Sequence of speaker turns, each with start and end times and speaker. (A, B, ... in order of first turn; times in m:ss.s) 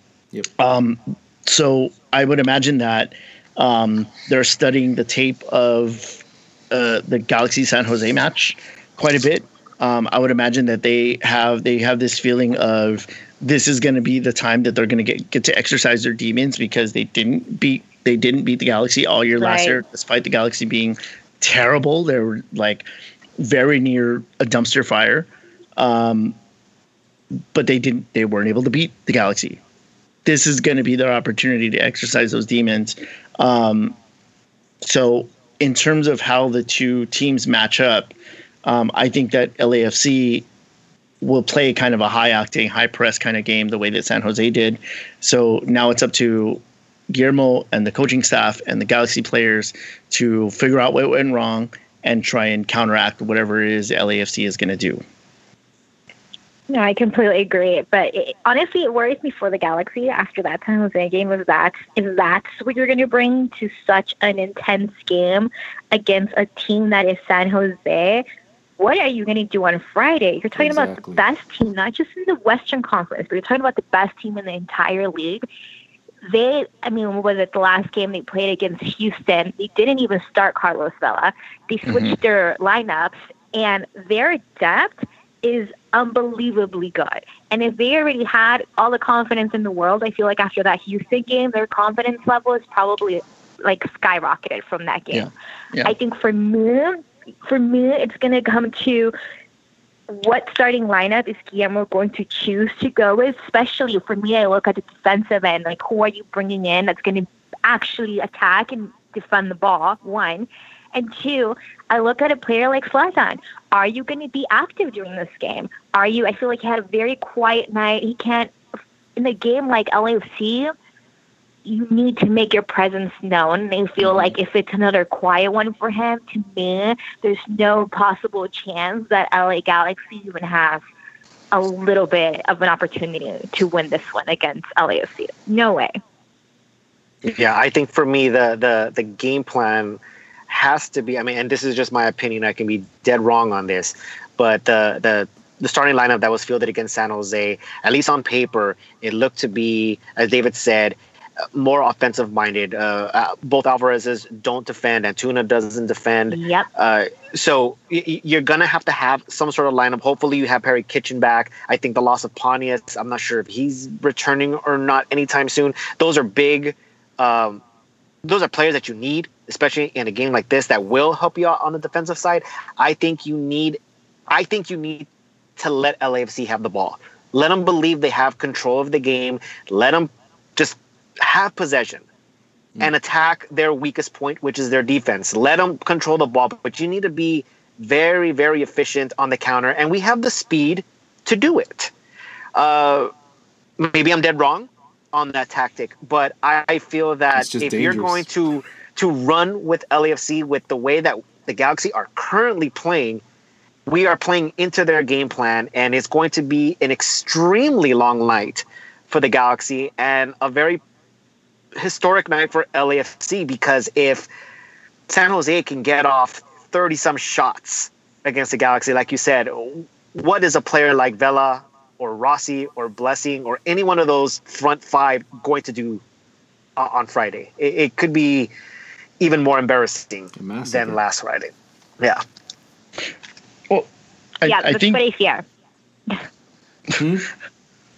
0:00.6-0:22.8 A
0:19.4-0:19.8 B
0:23.4-0:26.4 A
0:27.5-0:29.6 A
0:30.2-0:33.9 A
0:34.8-0:38.1 A
0:38.6-0:40.4 A
0:41.2-0:46.6 A
0:47.1-0:55.0 A
0:56.7-1:08.2 B
1:08.8-1:15.4 B
1:10.6-1:11.2 C
1:16.3-1:35.3 B
1:21.8-1:22.2 A
1:35.1-1:35.9 A
1:35.8-1:39.1 B
1:40.1-1:58.5 B
1:59.2-2:00.7 B
2:01.6-2:10.8 B
2:11.5-2:16.0 B
2:17.2-2:31.0 D
2:31.5-2:47.6 D
2:36.3-2:36.7 B
2:48.2-3:02.0 D
3:02.8-3:11.9 D
3:12.5-3:13.1 D
3:13.8-3:23.2 D
3:17.4-3:18.2 C
3:23.9-3:30.8 D
3:31.8-3:34.3 D
3:35.1-3:46.0 D
3:46.8-3:48.5 D
3:49.2-3:52.2 D
3:50.4-3:51.0 C
3:54.4-3:55.0 A
3:54.4-3:55.4 B
3:56.9-3:57.3 C